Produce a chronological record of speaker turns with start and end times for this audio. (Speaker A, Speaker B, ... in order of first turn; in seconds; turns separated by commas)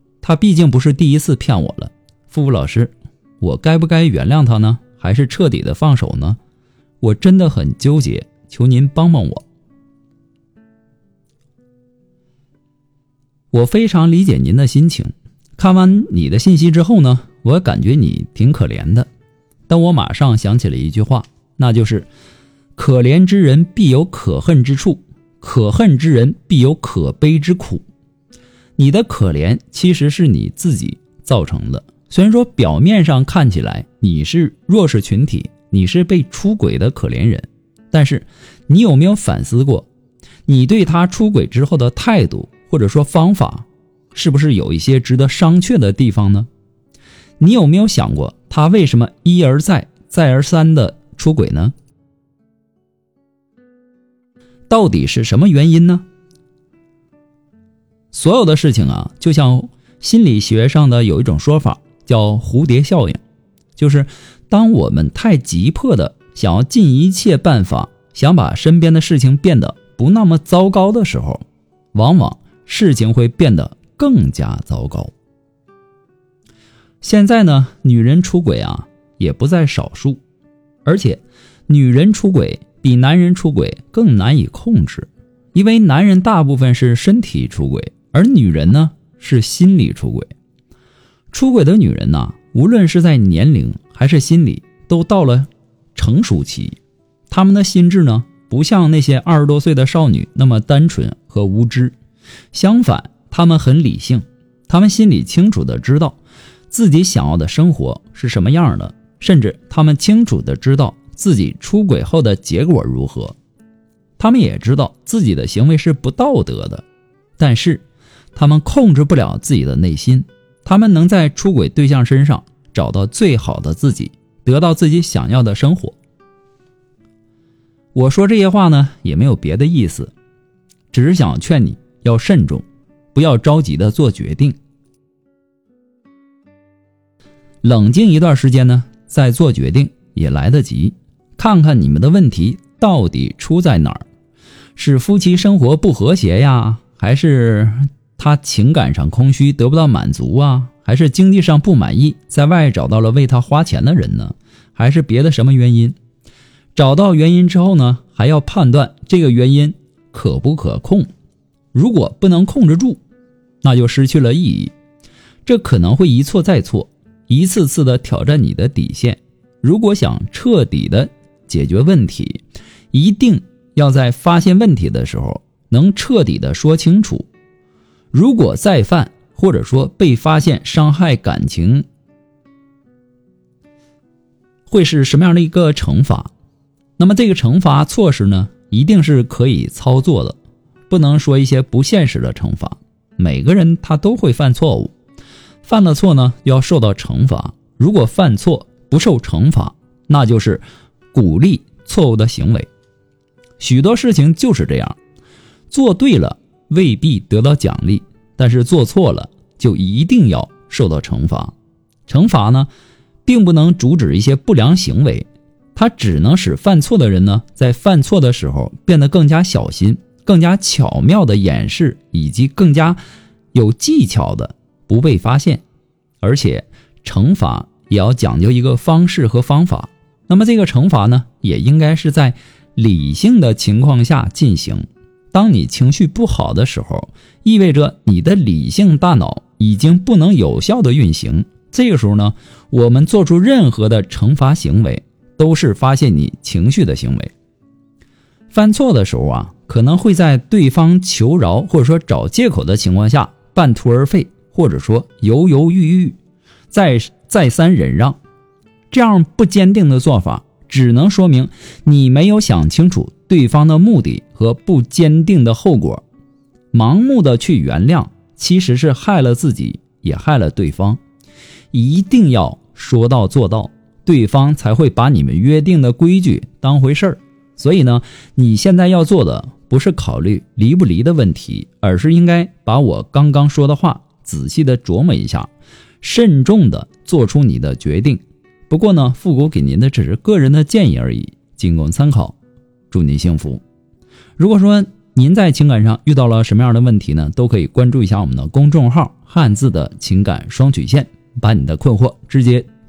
Speaker A: 0.2-6.4, Speaker A: 7.0-9.4, Speaker A: 13.5-19.1, Speaker A: 19.7-22.1, Speaker A: 22.8-27.8, Speaker A: 28.8-39.9, Speaker A: 40.5-46.5, Speaker A: 47.4-51.7, Speaker A: 54.7-56.0, Speaker A: 58.1-63.2, Speaker A: 63.8-75.1, Speaker A: 77.0-80.2, Speaker A: 80.8-90.3, Speaker A: 91.3-96.8, Speaker A: 97.3-102.0, Speaker A: 102.5-106.2, Speaker A: 106.7-113.3, Speaker A: 114.2-116.8, Speaker A: 117.4-126.0, Speaker A: 127.9-130.1, Speaker A: 130.9-134.6, Speaker A: 137.6-144.0, Speaker A: 144.8-156.0, Speaker A: 156.7-161.1, Speaker A: 161.7-163.0, Speaker A: 163.6-164.7, Speaker A: 165.4-177.3, Speaker A: 178.1-181.9, Speaker A: 184.7-186.3, Speaker A: 187.0-190.4, Speaker A: 190.9-194.9, Speaker A: 195.6-202.7, Speaker A: 203.6-205.0, Speaker A: 205.7-211.5, Speaker A: 212.1-212.7, Speaker A: 213.2-223.0, Speaker A: 223.5-225.6, Speaker A: 226.2-247.3, Speaker A: 248.5-256.2, Speaker A: 256.7-258.2, Speaker A: 258.9-266.0, Speaker A: 266.7-271.0, Speaker A: 271.7-292.4, Speaker A: 292.9-293.6, Speaker A: 294.4-302.7